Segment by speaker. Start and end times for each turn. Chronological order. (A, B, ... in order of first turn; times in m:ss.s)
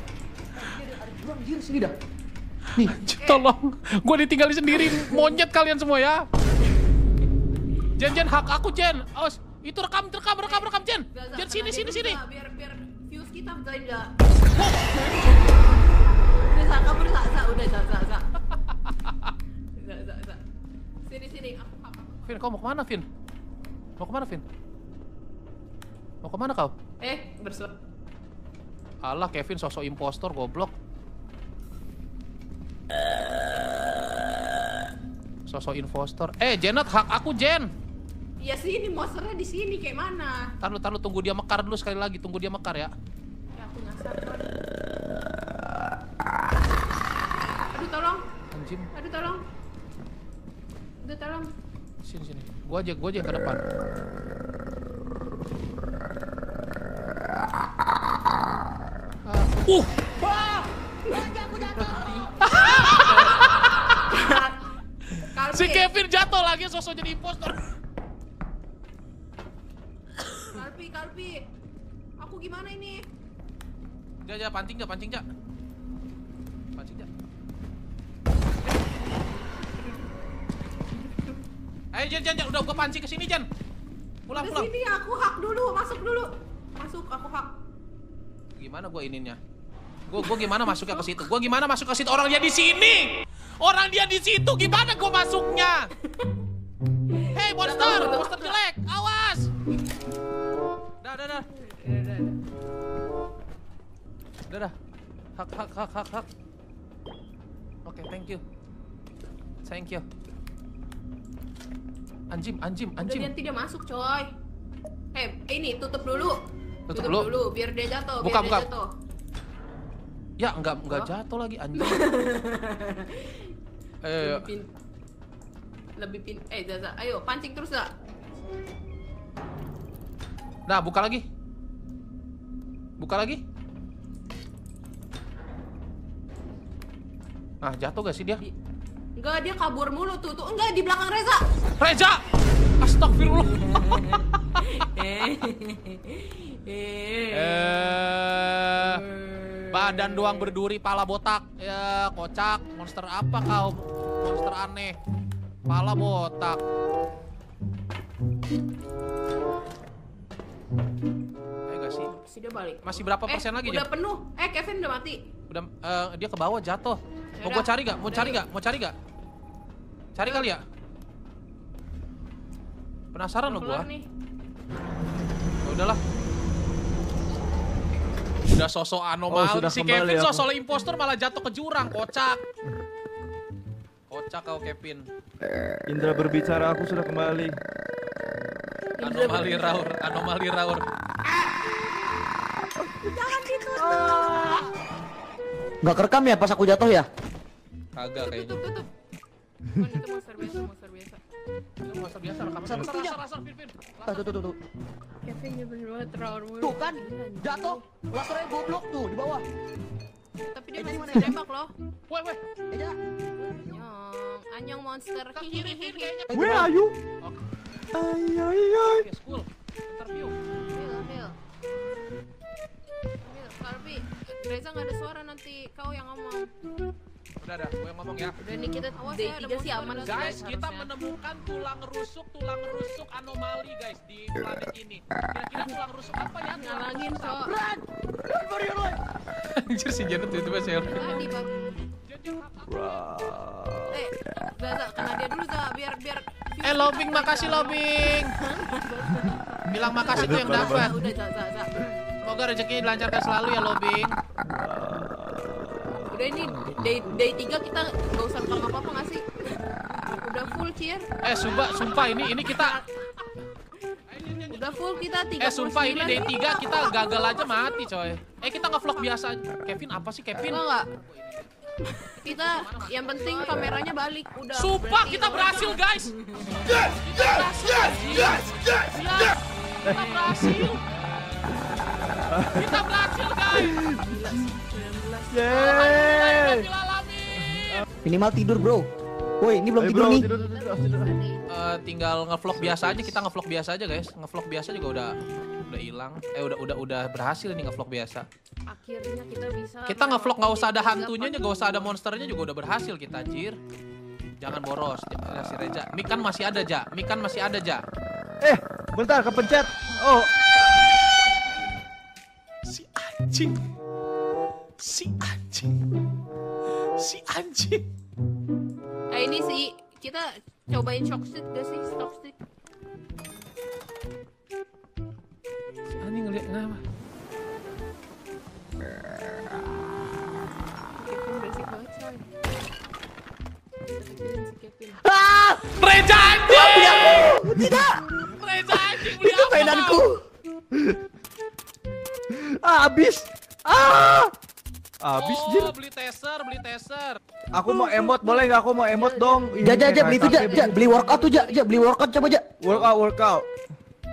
0:00.6-0:01.9 A
0:02.8-0:06.2 B
0:08.0-0:12.2 B
0:10.4-0:14.2 C
0:14.6-0:15.1 B
0:14.9-0:15.3 C
0:16.5-0:18.3 C
0:19.8-0:20.4 C
0:21.0-0:22.4 C
0:22.3-0:23.0 B
0:24.0-0:24.4 B
0:26.2-0:26.7 B
0:27.0-0:27.7 C
0:29.0-0:30.7 B
0:35.5-0:37.7 B
0:38.4-0:40.5 C
0:40.6-0:42.9 B
0:43.6-0:44.6 C
0:47.7-0:48.2 C
0:48.5-0:48.9 B
0:48.9-0:49.4 C
0:51.0-0:51.5 C
0:52.0-0:53.6 B
0:59.2-1:00.1 B
1:00.2-1:02.2 A
1:01.0-1:04.6 C
1:02.4-1:04.0 B
1:05.2-1:07.7 B
1:05.2-1:05.9 C
1:10.4-1:11.4 C
1:12.2-1:13.0 C
1:14.2-1:15.2 B
1:16.8-1:17.1 B
1:21.9-1:23.5 B
1:24.3-1:24.7 B
1:24.3-1:27.5 C
1:28.6-1:29.4 B
1:30.1-1:35.9 B
1:37.3-1:39.5 B
1:37.6-1:38.5 C
1:41.0-1:41.5 B
1:41.6-1:42.3 C
1:44.5-1:44.7 B
1:45.4-1:46.3 B
1:47.8-1:48.4 B
1:49.6-1:50.0 B
1:52.3-1:53.3 B
1:53.0-1:54.3 C
1:55.1-1:56.4 C
1:56.9-1:57.3 B
1:56.9-1:58.9 C
1:58.2-1:58.7 B
2:00.4-2:02.1 B
2:01.8-2:03.5 C
2:04.0-2:04.4 B
2:04.2-2:04.7 C
2:06.0-2:07.9 C
2:10.7-2:11.2 B
2:13.0-2:13.4 B
2:17.6-2:18.4 B
2:19.2-2:21.4 C
2:21.8-2:22.2 B
2:22.8-2:25.4 B
2:23.8-2:27.9 C
2:27.3-2:29.0 B
2:29.0-2:29.7 C
2:29.7-2:35.0 B
2:35.7-2:36.6 B
2:41.7-2:42.1 B
2:42.1-2:45.2 C
2:42.8-2:43.8 B
2:45.5-2:48.9 B
2:47.4-2:48.4 C
2:50.2-2:50.6 B
2:53.1-2:53.9 B
2:53.4-2:54.0 C
2:55.6-2:56.0 B
2:58.5-3:02.4 B
2:59.3-3:00.4 D
3:04.1-3:05.1 B
3:05.9-3:07.6 D
3:09.0-3:09.8 C
3:09.0-3:10.8 B
3:13.0-3:14.6 C
3:13.8-3:14.5 D
3:15.8-3:17.1 A
3:17.9-3:18.6 B
3:18.2-3:18.9 C
3:19.7-3:21.2 C
3:21.8-3:24.2 B
3:22.6-3:23.2 A
3:24.0-3:24.6 A
3:25.2-3:27.8 C
3:26.6-3:29.4 A
3:30.4-3:31.7 C
3:30.7-3:31.4 A
3:32.1-3:32.4 B
3:32.7-3:33.0 A
3:33.4-3:36.2 C
3:35.3-3:36.7 B
3:36.3-3:37.0 D
3:36.3-3:36.6 A
3:37.9-3:39.1 D
3:38.9-3:40.4 B
3:40.7-3:41.4 C
3:43.2-3:46.5 C
3:47.4-3:48.4 B
3:48.4-3:50.9 C
3:49.1-3:57.5 B
3:56.6-3:57.5 C
3:57.4-3:59.0 A
3:59.5-4:01.3 B
4:00.8-4:01.8 C
4:02.0-4:03.4 B
4:02.7-4:04.0 D
4:03.9-4:11.8 C
4:06.6-4:08.3 B
4:09.6-4:11.0 B
4:09.8-4:11.1 D
4:12.2-4:14.1 B
4:14.4-4:16.9 D
4:16.0-4:21.6 C
4:21.2-4:22.8 B
4:22.4-4:22.8 C
4:24.1-4:31.5 B
4:24.5-4:27.9 C
4:28.4-4:29.1 C
4:30.5-4:30.9 C
4:31.8-4:36.7 C
4:32.0-4:33.7 B
4:34.5-4:43.8 B
4:38.3-4:38.9 D
4:39.8-4:40.7 D
4:39.9-4:40.5 C
4:42.2-4:42.8 D
4:43.5-4:44.4 D
4:43.8-4:45.9 C
4:45.3-4:46.7 D
4:45.5-4:47.8 B
4:48.0-4:48.9 A
4:49.4-4:50.2 A
4:49.8-4:51.2 D
4:50.2-4:51.4 C
4:51.5-4:55.1 B
4:52.5-4:53.2 D
4:55.7-4:58.3 B
4:58.7-5:01.9 C
4:59.9-5:03.6 B
5:04.4-5:07.8 B
5:08.4-5:10.3 D
5:12.6-5:13.6 B
5:14.8-5:15.8 B
5:16.8-5:17.8 B
5:19.1-5:22.3 C
5:26.0-5:26.8 B
5:31.0-5:32.2 C
5:33.8-5:35.0 C
5:35.0-5:35.6 A
5:35.8-5:37.2 B
5:36.5-5:38.0 A
5:38.3-5:40.0 B
5:39.1-5:40.2 A
5:42.3-5:44.3 D
5:45.0-5:45.7 D
5:45.2-5:47.2 B
5:47.5-5:51.8 C
5:47.5-5:50.8 D
5:49.6-5:52.5 A
5:52.6-5:53.5 D